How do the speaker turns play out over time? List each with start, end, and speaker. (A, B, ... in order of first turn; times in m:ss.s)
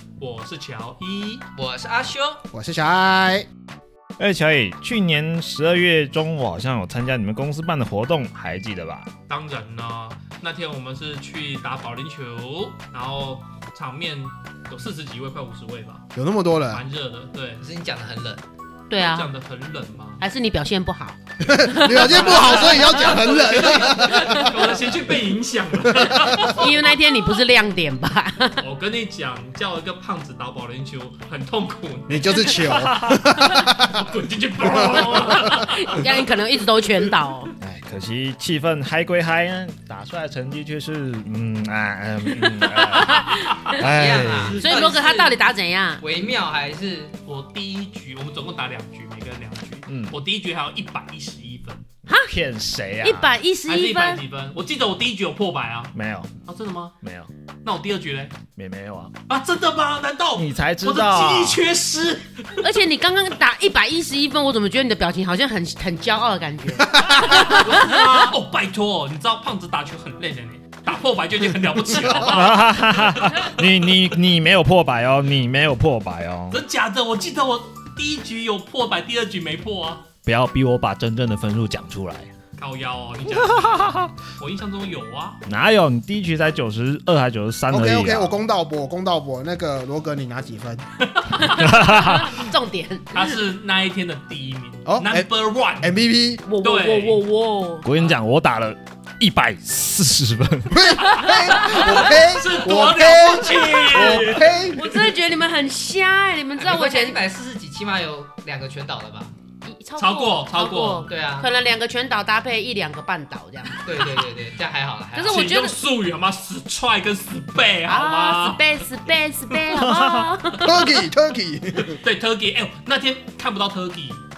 0:00.2-0:01.4 A
0:01.6-0:02.4 B
0:02.5-0:03.5 C
0:04.2-0:09.1 D
0:09.3-0:16.1 A
0:16.2-0:16.8 C
0:16.7-0:17.6 A
0:17.6-0:18.4 B
0:18.9-0:19.3 E
0:19.0-0:20.2 A
0:20.2-0:23.2 E
0:21.4-0:24.6 C
0:21.9-0:26.7 A
0:26.0-0:26.6 C
0:26.4-0:28.6 E
0:28.6-0:36.3 A
0:32.1-0:34.1 C
0:34.6-0:35.5 C
0:34.9-0:37.5 E
0:37.6-0:44.6 D
0:42.6-0:43.8 E
0:43.8-0:45.4 B
0:44.6-0:46.0 E
0:46.0-0:47.2 B
0:47.3-0:51.9 A
0:49.9-0:50.2 D
0:52.1-0:52.4 E
0:52.3-0:53.4 D
0:53.0-0:54.2 E
0:53.7-0:55.9 A
0:55.9-0:56.3 D
0:56.5-0:57.0 A
0:57.0-0:57.3 D
0:57.6-0:58.4 A
0:58.6-0:59.1 D
0:59.3-1:02.7 A
1:00.4-1:01.6 D
1:02.6-1:08.3 E
1:06.9-1:07.4 C
1:07.2-1:13.6 A
1:12.0-1:16.6 D
1:16.5-1:20.0 A
1:20.2-1:22.3 D
1:22.6-1:25.4 A
1:23.2-1:24.1 D
1:25.5-1:28.4 D
1:27.7-1:30.8 C
1:31.2-1:31.5 A
1:31.4-1:33.4 E
1:31.5-1:32.4 D
1:33.1-1:36.0 A
1:34.9-1:35.3 C
1:35.8-1:36.4 C
1:36.5-1:37.9 E
1:36.6-1:37.2 A
1:37.8-1:41.1 D
1:40.7-1:44.8 C
1:41.2-1:41.9 E
1:41.6-1:44.7 A
1:44.7-1:47.2 E
1:46.6-1:49.3 B
1:49.6-1:53.9 E
1:50.0-1:51.1 A
1:51.1-1:51.5 B
1:53.8-1:55.5 B
1:55.2-1:55.8 E
1:55.3-1:58.6 A
1:57.9-2:01.0 E
1:59.7-2:00.3 D
2:00.5-2:02.0 C
2:01.9-2:04.2 A